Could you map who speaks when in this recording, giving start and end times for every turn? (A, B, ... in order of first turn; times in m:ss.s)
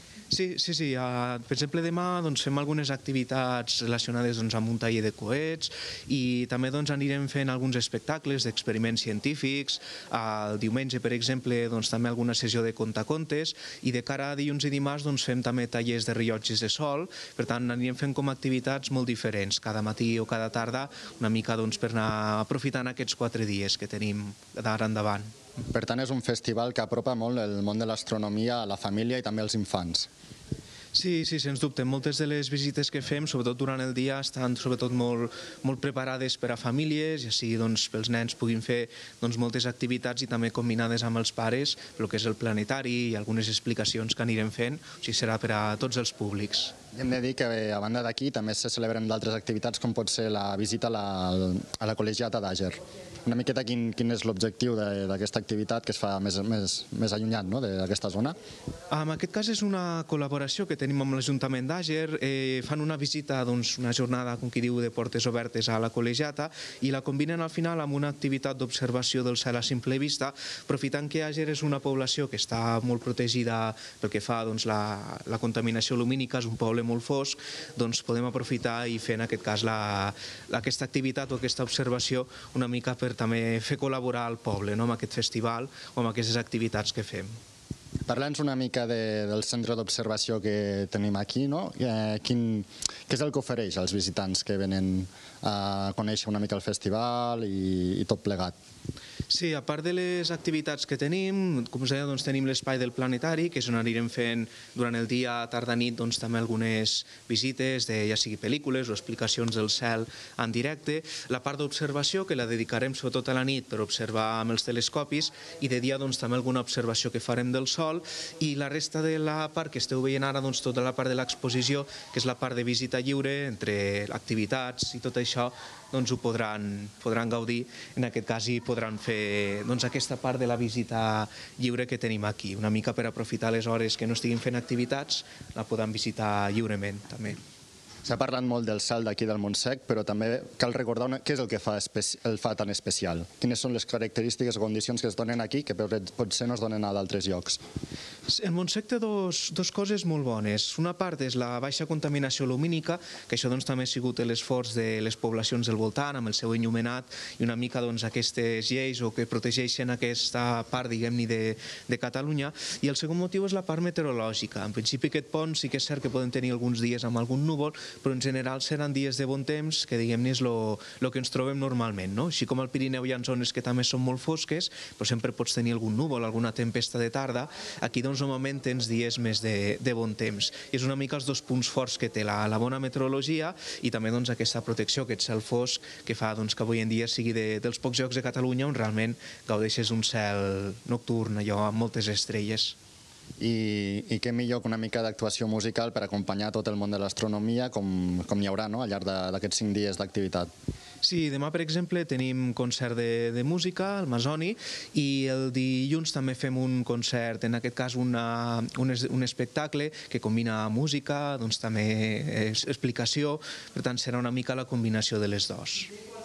0:00.3-0:25.3 A
0:25.7-0:30.1 B
0:30.9-0:46.8 A
0:46.9-0:58.4 B
0:58.9-1:27.4 A
1:28.1-1:38.6 B
1:39.3-2:17.4 A
2:18.0-2:27.6 B
2:28.3-3:12.8 A
3:13.4-3:20.5 B
3:21.0-3:35.9 A